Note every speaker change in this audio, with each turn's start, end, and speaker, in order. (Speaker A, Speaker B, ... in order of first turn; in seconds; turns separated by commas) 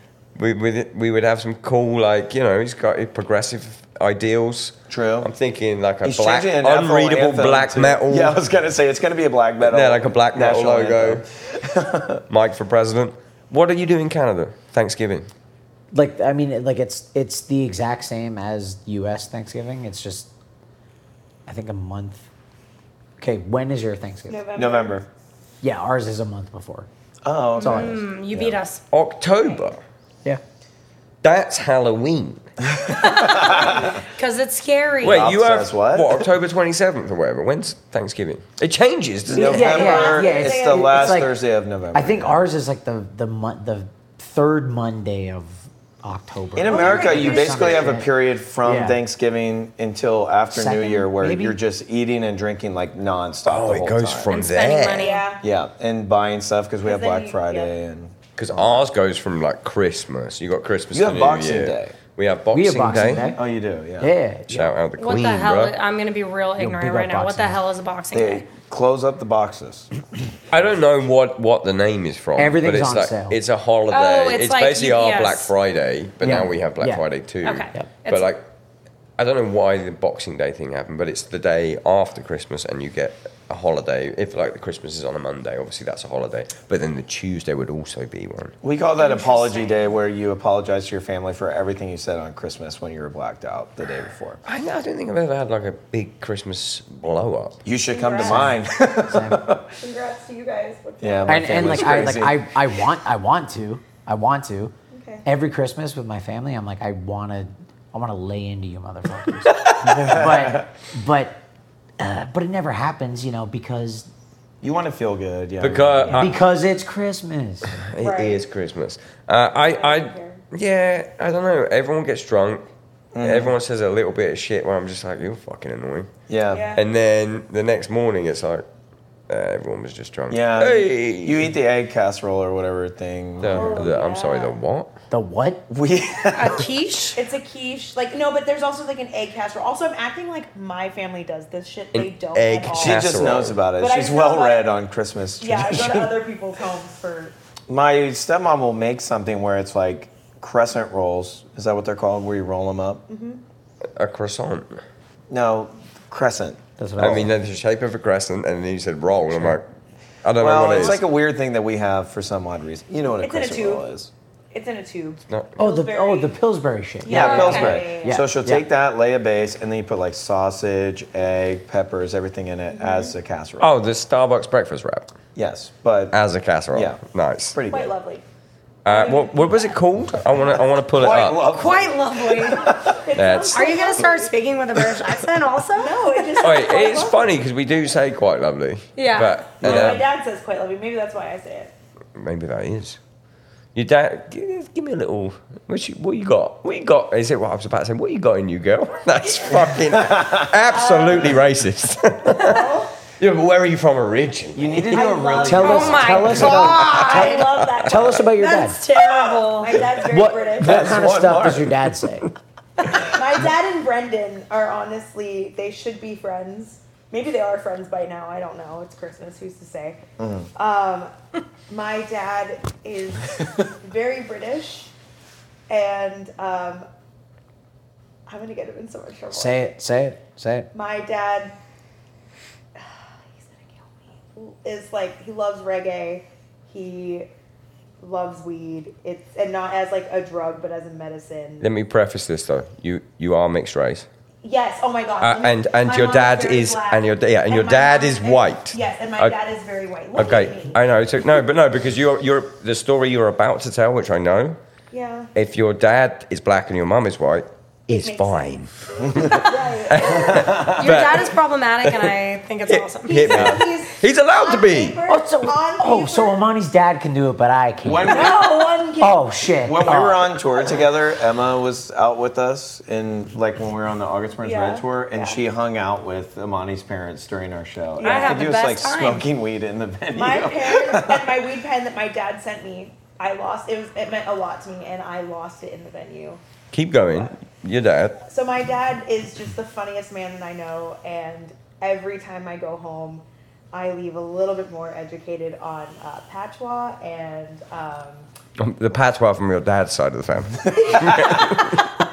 Speaker A: 0.4-8.4, Speaker B: 4.9-5.3, Speaker B: 6.0-12.2, Speaker A: 9.7-11.2, Speaker A: 12.3-15.3, Speaker C: 15.9-20.3, Speaker C: 21.5-22.3, Speaker C: 23.2-24.5, Speaker D: 24.3-25.0, Speaker B: 24.6-25.1, Speaker C: 25.6-26.9, Speaker B: 27.2-28.6, Speaker E: 27.6-28.8, Speaker C: 27.6-28.0, Speaker A: 28.9-29.8, Speaker A: 31.2-32.5, Speaker B: 32.7-33.9, Speaker E: 33.0-35.2, Speaker D: 33.6-34.0, Speaker B: 35.0-36.2, Speaker A: 35.0-39.8, Speaker B: 39.3-42.4, Speaker C: 39.4-41.3, Speaker D: 39.4-41.3, Speaker C: 41.9-48.1, Speaker B: 46.6-54.3, Speaker D: 46.7-48.1, Speaker C: 48.6-49.0, Speaker C: 50.5-51.6, Speaker A: 53.5-55.1, Speaker E: 54.3-55.3, Speaker D: 55.0-55.5, Speaker B: 55.4-58.7, Speaker D: 56.8-57.7, Speaker A: 58.4-63.3, Speaker B: 60.9-62.0, Speaker C: 62.5-63.5, Speaker B: 63.3-64.1, Speaker C: 64.0-64.8, Speaker A: 64.5-65.8, Speaker E: 65.0-68.5, Speaker C: 66.6-67.6, Speaker B: 68.1-69.9, Speaker A: 70.5-78.5, Speaker C: 72.4-73.4, Speaker E: 73.9-75.5, Speaker C: 76.2-77.0, Speaker E: 77.4-78.3, Speaker A: 79.2-88.6, Speaker B: 88.6-94.4, Speaker D: 89.0-90.0, Speaker A: 94.5-97.6, Speaker B: 97.7-99.8, Speaker D: 97.9-98.6, Speaker C: 98.2-99.5, Speaker D: 99.8-102.2, Speaker B: 101.0-102.5, Speaker C: 101.3-111.4, Speaker D: 104.9-105.2, Speaker B: 109.5-110.7, Speaker C: 112.0-114.1, Speaker B: 114.6-116.3, Speaker A: 115.6-116.4, Speaker C: 116.1-117.8, Speaker A: 117.7-122.7, Speaker D: 118.0-118.4, Speaker D: 119.6-120.4, Speaker B: 123.1-123.5, Speaker A: 123.2-126.1, Speaker B: 126.3-126.7, Speaker D: 126.5-126.8, Speaker A: 126.7-128.7, Speaker A: 129.3-131.5, Speaker B: 130.3-133.9, Speaker A: 133.4-134.9, Speaker D: 133.4-134.6, Speaker C: 135.1-135.7, Speaker B: 135.7-136.7, Speaker E: 136.3-137.2, Speaker D: 137.2-144.8, Speaker A: 141.9-143.6, Speaker B: 142.7-146.1, Speaker D: 145.4-147.3, Speaker B: 147.7-153.1, Speaker D: 153.1-153.4, Speaker A: 154.0-154.8, Speaker B: 155.3-157.2, Speaker C: 156.8-157.3, Speaker A: 157.0-159.7, Speaker A: 160.2-161.0, Speaker B: 160.4-164.1, Speaker D: 163.2-163.9, Speaker D: 164.5-166.3, Speaker A: 165.3-165.7, Speaker C: 165.6-168.7, Speaker D: 167.0-168.3, Speaker B: 167.1-173.7, Speaker E: 167.1-167.8, Speaker D: 172.7-173.2, Speaker A: 173.6-175.1, Speaker B: 175.3-176.2, Speaker A: 176.1-177.6, Speaker B: 176.7-177.0, Speaker B: 177.5-177.9, Speaker D: 177.7-178.2, Speaker A: 178.8-181.5, Speaker D: 178.9-179.8, Speaker B: 180.9-183.0, Speaker E: 181.5-182.7, Speaker D: 182.9-184.3, Speaker A: 183.2-183.8, Speaker E: 183.5-186.5, Speaker D: 185.8-187.3, Speaker A: 186.4-190.0, Speaker E: 189.0-189.4, Speaker B: 189.6-190.0, Speaker D: 189.6-191.7, Speaker A: 192.2-193.0, Speaker A: 193.8-205.0, Speaker B: 200.0-200.5, Speaker D: 200.7-201.4, Speaker D: 202.3-202.9, Speaker B: 204.6-206.6, Speaker D: 204.9-211.1, Speaker C: 205.4-208.8, Speaker E: 205.6-207.5, Speaker A: 207.6-208.1, Speaker E: 208.4-209.8, Speaker C: 210.0-212.3, Speaker B: 210.6-211.8, Speaker D: 212.9-220.0, Speaker B: 220.2-220.5, Speaker D: 220.6-221.1, Speaker D: 221.7-224.9, Speaker D: 225.7-226.9, Speaker D: 228.3-229.7, Speaker C: 229.3-230.7, Speaker D: 230.7-231.6, Speaker D: 232.8-237.3, Speaker D: 238.0-241.7, Speaker A: 241.6-244.1, Speaker D: 244.4-250.8, Speaker A: 245.2-249.4, Speaker A: 250.1-254.6, Speaker D: 254.9-255.3, Speaker A: 255.3-261.4, Speaker D: 257.9-258.6, Speaker B: 259.1-259.4, Speaker D: 259.2-260.7, Speaker B: 260.1-261.0, Speaker E: 260.7-263.4, Speaker A: 262.7-265.0, Speaker D: 263.1-266.5, Speaker B: 263.3-263.6, Speaker C: 265.1-268.4, Speaker B: 267.8-268.5, Speaker D: 268.1-269.3, Speaker C: 269.0-270.4, Speaker B: 269.6-281.4, Speaker D: 274.4-275.4, Speaker D: 278.0-278.5, Speaker E: 278.0-279.3, Speaker D: 280.1-286.4, Speaker A: 286.7-288.2, Speaker D: 288.3-298.3, Speaker A: 298.6-301.9, Speaker B: 300.8-301.5, Speaker D: 300.8-301.8